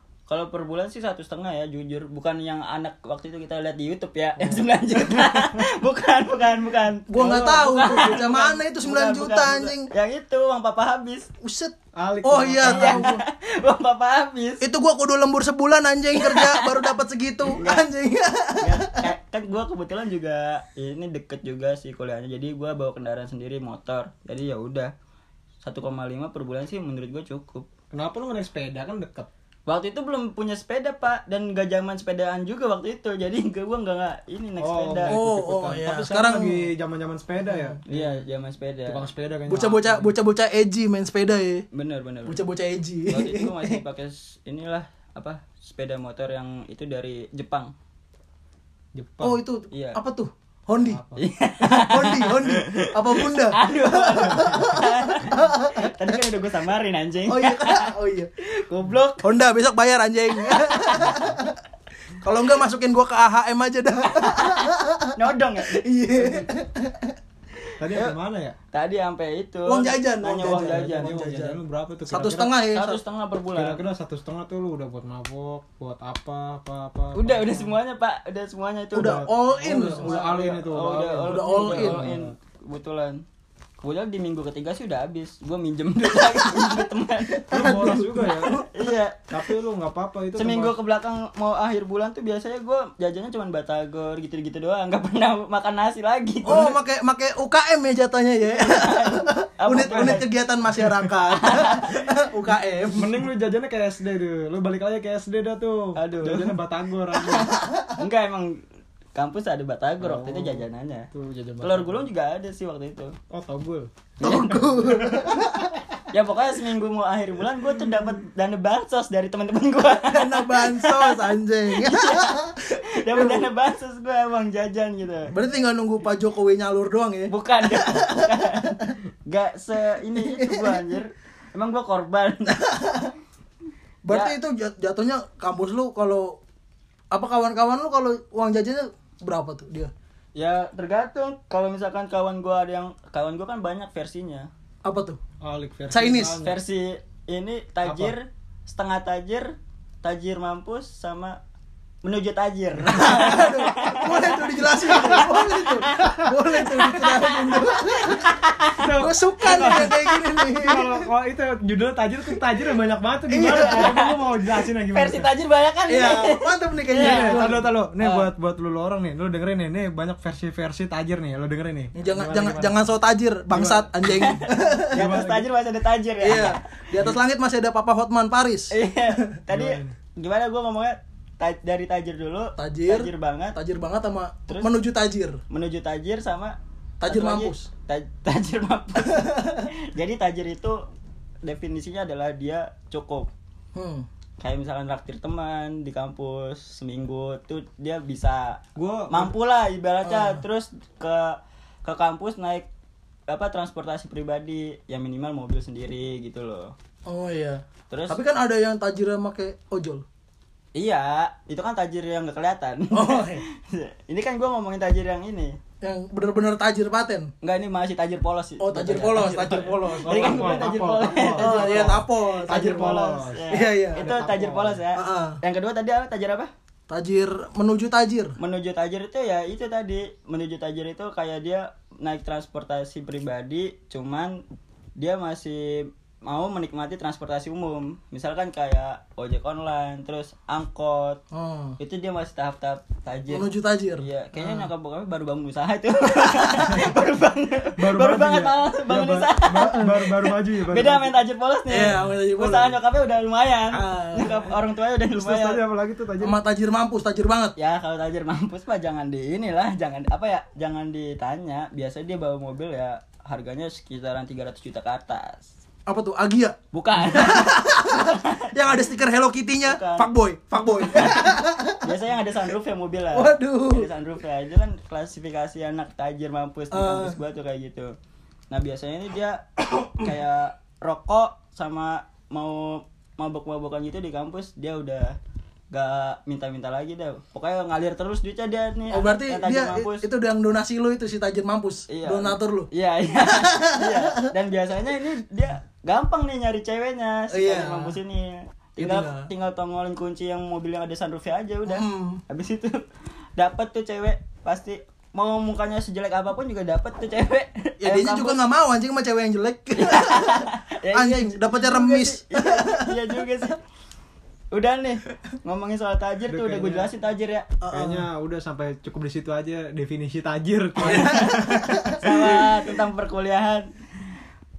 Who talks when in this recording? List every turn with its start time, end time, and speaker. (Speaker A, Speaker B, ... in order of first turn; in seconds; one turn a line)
Speaker A: 0.3-11.3
Speaker B: 4.4-4.7
Speaker C: 7.1-9.9
Speaker C: 11.4-13.2
Speaker B: 11.9-13.1
Speaker A: 12.6-14.6
Speaker C: 14.6-19.1
Speaker A: 16.1-16.9
Speaker A: 17.6-17.9
Speaker A: 18.6-24.9
Speaker A: 25.6-27.7
Speaker B: 27.9-29.3
Speaker A: 29.7-35.2
Speaker B: 34.6-38.2
Speaker C: 35.0-36.6
Speaker A: 37.9-39.0
Speaker B: 38.9-40.1
Speaker C: 39.5-41.6
Speaker A: 41.7-42.4
Speaker C: 42.3-43.8
Speaker A: 43.1-47.7
Speaker B: 48.9-49.4
Speaker C: 49.2-51.0
Speaker A: 49.7-50.0
Speaker B: 50.9-51.2
Speaker A: 51.1-57.8
Speaker C: 51.6-55.9
Speaker C: 57.3-58.3
Speaker A: 58.4-59.2
Speaker C: 59.2-61.5
Speaker A: 60.5-61.1
Speaker C: 62.2-65.1
Speaker A: 64.2-66.4
Speaker C: 65.7-67.1
Speaker B: 67.8-68.5
Speaker A: 68.7-71.2
Speaker C: 69.6-73.0
Speaker B: 70.4-72.5
Speaker A: 72.7-73.8
Speaker B: 73.5-77.7
Speaker A: 77.1-83.2
Speaker C: 78.9-80.3
Speaker B: 79.0-82.3
Speaker C: 81.2-82.1
Speaker A: 83.8-87.7
Speaker C: 87.5-88.7
Speaker B: 87.5-88.5
Speaker A: 88.7-89.2
Speaker B: 89.3-90.8
Speaker A: 90.3-96.7
Speaker C: 96.4-103.2
Speaker A: 98.5-100.2
Speaker B: 99.8-100.3
Speaker A: 101.2-101.9
Speaker B: 102.9-107.5
Speaker A: 105.9-106.6
Speaker A: 107.1-108.5
Speaker C: 107.6-107.9
Speaker A: 109.1-111.1
Speaker B: 110.0-112.1
Speaker A: 111.6-113.1
Speaker B: 113.3-113.9
Speaker A: 114.2-114.5
Speaker C: 114.2-115.8
Speaker A: 116.1-125.3
Speaker C: 120.0-123.5
Speaker C: 125.3-128.9
Speaker A: 127.3-132.6
Speaker C: 130.2-130.8
Speaker C: 132.5-133.1
Speaker C: 134.0-136.4
Speaker A: 134.1-134.3
Speaker C: 137.1-139.9
Speaker A: 140.3-144.5
Speaker C: 144.8-145.2
Speaker B: 145.4-146.6
Speaker C: 145.9-146.4
Speaker A: 146.4-149.5
Speaker B: 147.8-148.1
Speaker A: 150.0-151.4
Speaker A: 152.0-158.9
Speaker C: 152.8-158.3
Speaker B: 152.9-153.5
Speaker B: 158.8-160.0
Speaker C: 159.0-161.1
Speaker A: 159.5-159.9
Speaker B: 160.6-165.3
Speaker C: 163.3-163.9
Speaker A: 163.4-168.3
Speaker C: 165.9-167.7
Speaker B: 167.0-172.7
Speaker C: 171.9-175.1
Speaker B: 173.5-174.3
Speaker A: 174.1-174.4
Speaker B: 174.9-175.5
Speaker A: 174.9-176.6
Speaker C: 176.2-178.7
Speaker A: 178.7-183.6
Speaker B: 179.5-179.9
Speaker C: 182.6-185.4
Speaker A: 185.5-190.8
Speaker C: 187.0-187.7
Speaker C: 189.0-189.6
Speaker A: 191.4-193.3
Speaker C: 193.7-194.1
Speaker A: 194.4-202.7
Speaker B: 198.8-199.3
Speaker C: 200.0-200.4
Speaker A: 203.3-206.7
Speaker C: 207.1-210.0
Speaker A: 207.9-208.2
Speaker A: 210.7-215.6
Speaker C: 212.9-213.4
Speaker C: 215.8-217.3
Speaker A: 217.4-226.5
Speaker C: 218.6-220.5
Speaker B: 219.8-224.8
Speaker C: 221.3-222.9
Speaker C: 223.5-224.1
Speaker C: 224.9-225.4
Speaker C: 226.9-228.3
Speaker A: 228.4-234.4
Speaker A: 235.0-241.2
Speaker C: 241.3-241.8
Speaker A: 241.8-243.5
Speaker C: 243.3-244.7
Speaker A: 244.0-255.6
Speaker B: 247.8-251.1
Speaker C: 249.5-249.9
Speaker C: 251.7-252.8
Speaker C: 253.7-254.5
Speaker B: 255.1-256.4
Speaker C: 256.2-257.5
Speaker A: 257.6-265.4
Speaker C: 265.9-271.9
Speaker A: 266.7-268.8
Speaker A: 269.6-270.1
Speaker A: 270.6-271.2
Speaker A: 271.8-277.9
Speaker C: 273.1-273.9
Speaker C: 276.7-277.2
Speaker A: 278.5-285.1
Speaker A: 285.7-290.0
Speaker C: 288.9-292.7
Speaker A: 291.9-302.8
Speaker C: 293.2-294.3
Speaker C: 297.3-298.0
Speaker C: 298.8-299.3
Speaker C: 301.6-302.2
Speaker A: 303.4-308.4
Speaker C: 307.8-312.9
Speaker A: 309.8-313.6
Speaker A: 314.5-317.4
Speaker B: 316.3-316.9
Speaker C: 317.6-318.1
Speaker B: 317.7-321.8
Speaker A: 320.8-321.3
Speaker C: 320.8-322.0
Speaker A: 322.0-324.1